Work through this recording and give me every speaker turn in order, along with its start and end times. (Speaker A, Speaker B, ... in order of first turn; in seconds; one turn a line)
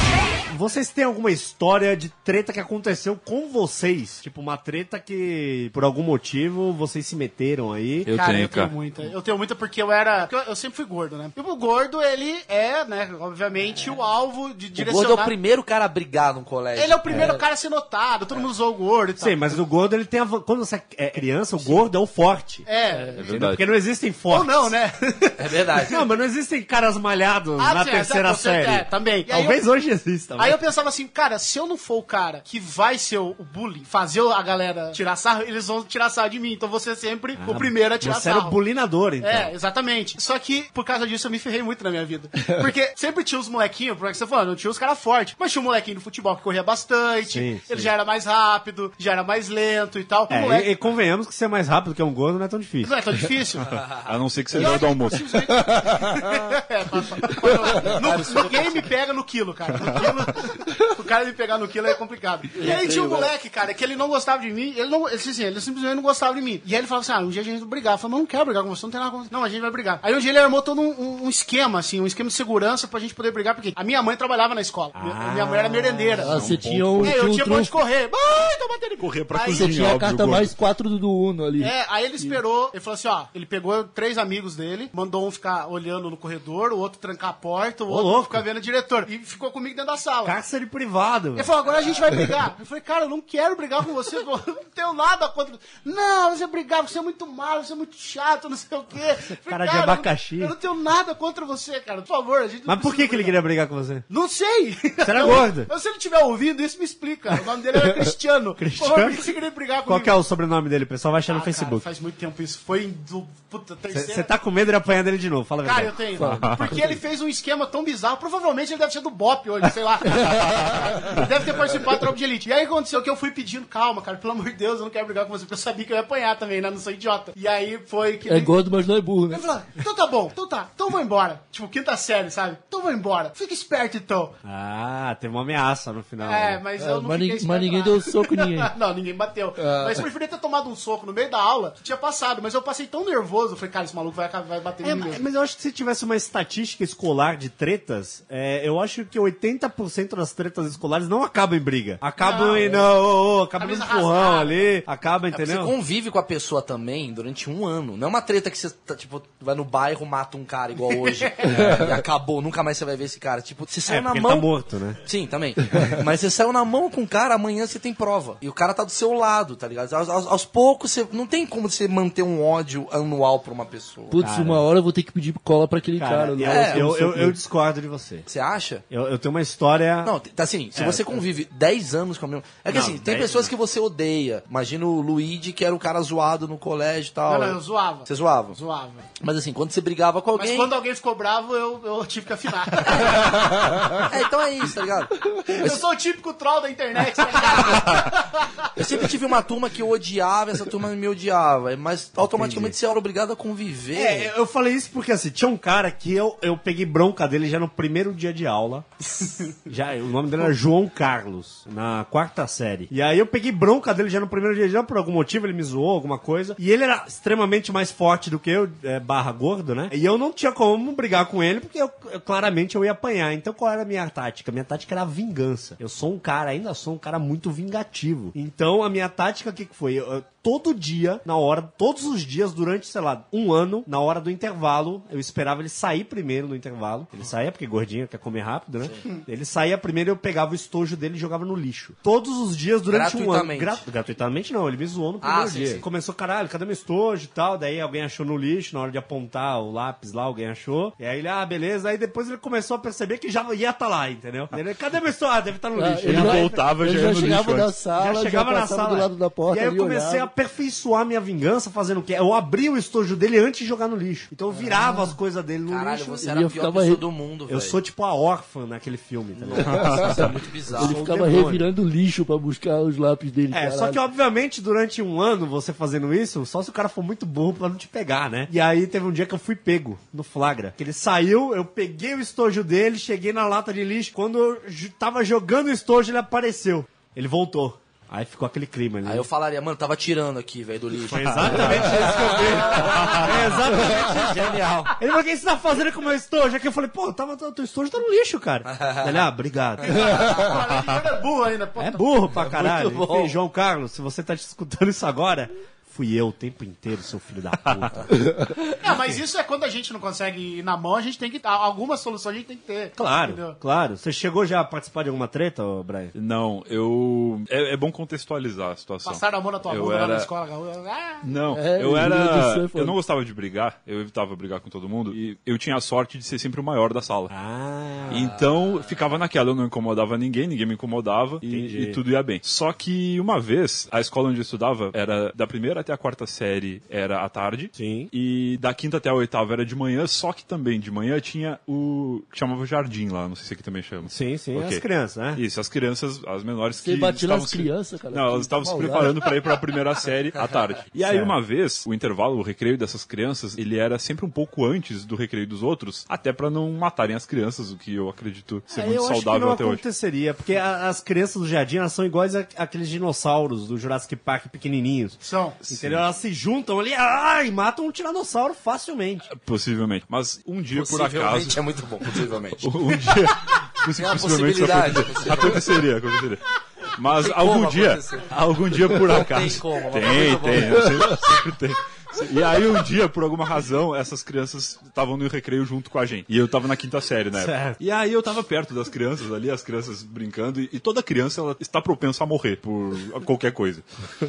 Speaker A: 0.5-8.1
Speaker B: 8.1-8.7
Speaker C: 8.1-15.3
Speaker D: 14.8-17.3
Speaker C: 16.8-19.5
Speaker A: 17.1-17.4
Speaker A: 19.2-22.7
Speaker C: 22.6-23.2
Speaker B: 23.1-23.6
Speaker A: 23.2-24.8
Speaker C: 24.3-25.9
Speaker D: 25.4-26.0
Speaker A: 25.9-30.6
Speaker C: 27.6-29.6
Speaker C: 30.4-38.6
Speaker A: 37.4-39.5
Speaker C: 39.2-50.7
Speaker A: 47.3-47.9
Speaker A: 50.3-52.9
Speaker C: 52.8-53.9
Speaker D: 53.6-54.0
Speaker B: 53.9-55.6
Speaker C: 54.5-76.4
Speaker D: 57.9-58.7
Speaker E: 62.5-63.3
Speaker A: 74.9-76.6
Speaker E: 76.2-77.7
Speaker B: 76.3-77.2
Speaker C: 77.0-79.9
Speaker B: 79.0-80.5
Speaker E: 79.5-82.4
Speaker C: 81.6-90.4
Speaker A: 87.9-88.4
Speaker A: 90.2-91.5
Speaker C: 91.3-103.4
Speaker A: 99.3-100.5
Speaker A: 102.7-104.0
Speaker C: 104.1-110.2
Speaker A: 105.0-105.7
Speaker A: 108.6-109.3
Speaker A: 109.8-111.9
Speaker C: 111.3-114.3
Speaker A: 113.9-116.0
Speaker C: 115.6-128.5
Speaker E: 116.2-117.0
Speaker B: 116.4-116.8
Speaker E: 120.1-120.7
Speaker E: 128.2-129.5
Speaker C: 129.3-134.3
Speaker A: 134.4-136.6
Speaker C: 136.2-145.2
Speaker E: 136.8-138.7
Speaker E: 139.6-140.0
Speaker A: 144.8-155.7
Speaker C: 152.2-152.8
Speaker C: 153.6-154.7
Speaker D: 155.3-164.5
Speaker C: 161.1-161.6
Speaker A: 163.9-165.0
Speaker D: 165.0-174.2
Speaker E: 174.1-177.4
Speaker A: 174.2-174.7
Speaker A: 176.0-178.2
Speaker D: 176.4-176.9
Speaker D: 178.3-178.8
Speaker A: 178.9-180.1
Speaker D: 180.0-188.6
Speaker A: 180.7-181.2
Speaker A: 182.7-183.5
Speaker C: 187.3-189.0
Speaker D: 189.2-190.7
Speaker C: 190.3-193.4
Speaker D: 192.8-195.8
Speaker C: 195.5-198.7
Speaker D: 197.4-197.9
Speaker D: 198.8-204.3
Speaker A: 202.2-202.8
Speaker A: 203.9-208.9
Speaker C: 209.2-209.5
Speaker A: 209.7-256.6
Speaker D: 242.9-243.8
Speaker D: 245.2-245.8
Speaker E: 255.7-260.3
Speaker B: 256.0-257.8
Speaker A: 257.9-266.2
Speaker D: 265.7-267.8
Speaker E: 266.2-267.0
Speaker A: 267.5-270.1
Speaker D: 269.4-271.0
Speaker B: 269.6-270.3
Speaker E: 269.6-274.0
Speaker A: 270.7-271.7
Speaker A: 273.5-289.3
Speaker D: 289.0-294.9
Speaker A: 290.9-300.2
Speaker B: 292.9-293.2
Speaker D: 298.6-299.2
Speaker C: 299.9-302.1
Speaker A: 301.8-308.1
Speaker D: 302.4-303.3
Speaker C: 308.8-313.6
Speaker A: 308.9-309.2
Speaker A: 312.9-316.1
Speaker B: 316.1-320.3
Speaker C: 319.0-321.2
Speaker B: 321.2-327.3
Speaker E: 321.5-323.0
Speaker A: 327.3-328.4
Speaker B: 328.1-359.8
Speaker A: 331.4-332.0
Speaker A: 337.7-338.1
Speaker A: 344.1-345.4
Speaker E: 346.8-349.2
Speaker A: 351.0-351.4
Speaker A: 358.7-369.3
Speaker C: 365.2-365.6
Speaker B: 365.6-366.0
Speaker B: 369.3-371.6
Speaker D: 370.7-372.7
Speaker B: 372.6-376.4
Speaker D: 373.9-375.8
Speaker B: 377.0-393.8
Speaker D: 377.1-378.3
Speaker D: 378.9-381.2
Speaker A: 387.4-387.8